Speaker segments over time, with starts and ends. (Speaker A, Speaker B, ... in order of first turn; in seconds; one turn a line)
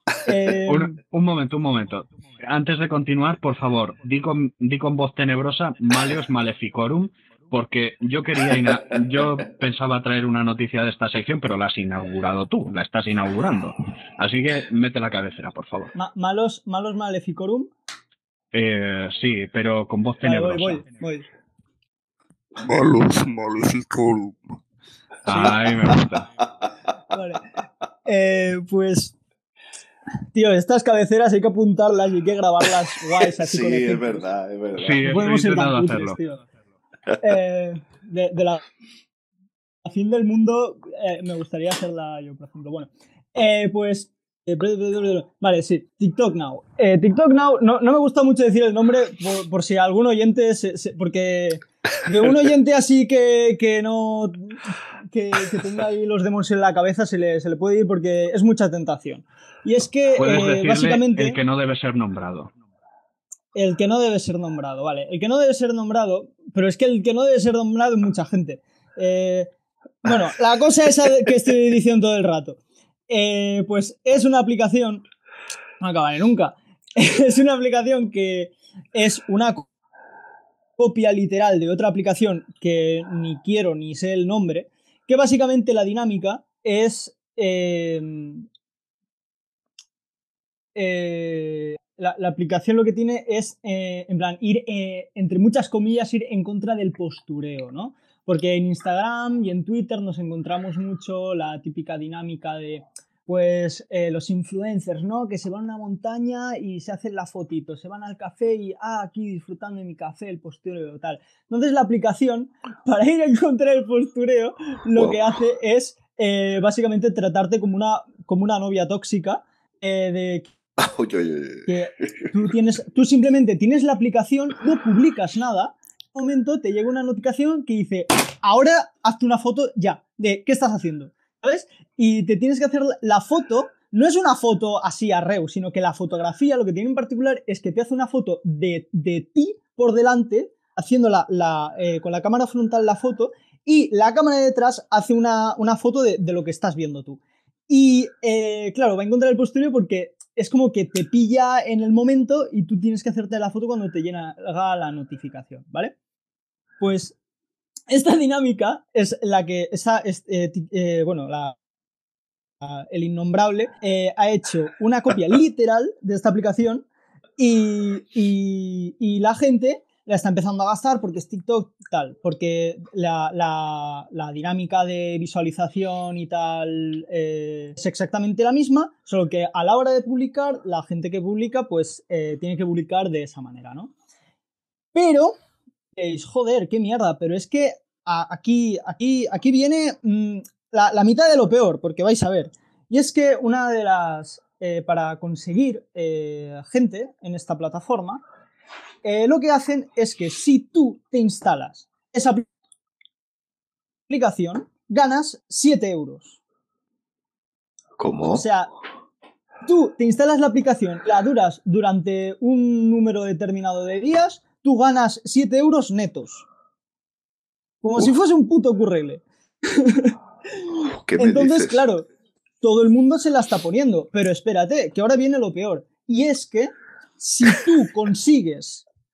Speaker A: 0.2-1.0
Speaker B: 0.7-15.9
Speaker A: 15.9-17.7
Speaker B: 18.5-20.9
Speaker A: 20.2-21.3
Speaker C: 22.6-24.6
Speaker B: 25.3-26.3
Speaker A: 27.1-27.4
Speaker A: 28.1-29.1
Speaker A: 30.3-34.2
Speaker D: 33.2-35.2
Speaker B: 34.8-36.2
Speaker A: 35.1-36.4
Speaker A: 37.2-38.6
Speaker A: 39.9-61.4
Speaker B: 60.2-62.5
Speaker A: 63.5-69.5
Speaker A: 70.0-75.0
Speaker A: 75.8-79.7
Speaker A: 80.8-88.5
Speaker A: 90.8-120.5
Speaker D: 115.0-115.2
Speaker D: 120.8-122.3
Speaker A: 121.7-155.9
Speaker A: 156.8-157.2
Speaker A: 157.9-161.6
Speaker A: 162.6-166.8
Speaker A: 167.4-183.9
Speaker A: 184.9-185.4
Speaker A: 186.0-198.2
Speaker A: 199.0-202.4
Speaker A: 204.1-206.4
Speaker D: 208.0-208.4
Speaker A: 208.3-208.7
Speaker A: 209.6-216.5
Speaker A: 217.8-220.2
Speaker D: 220.7-221.8
Speaker A: 221.2-222.1
Speaker A: 222.6-228.8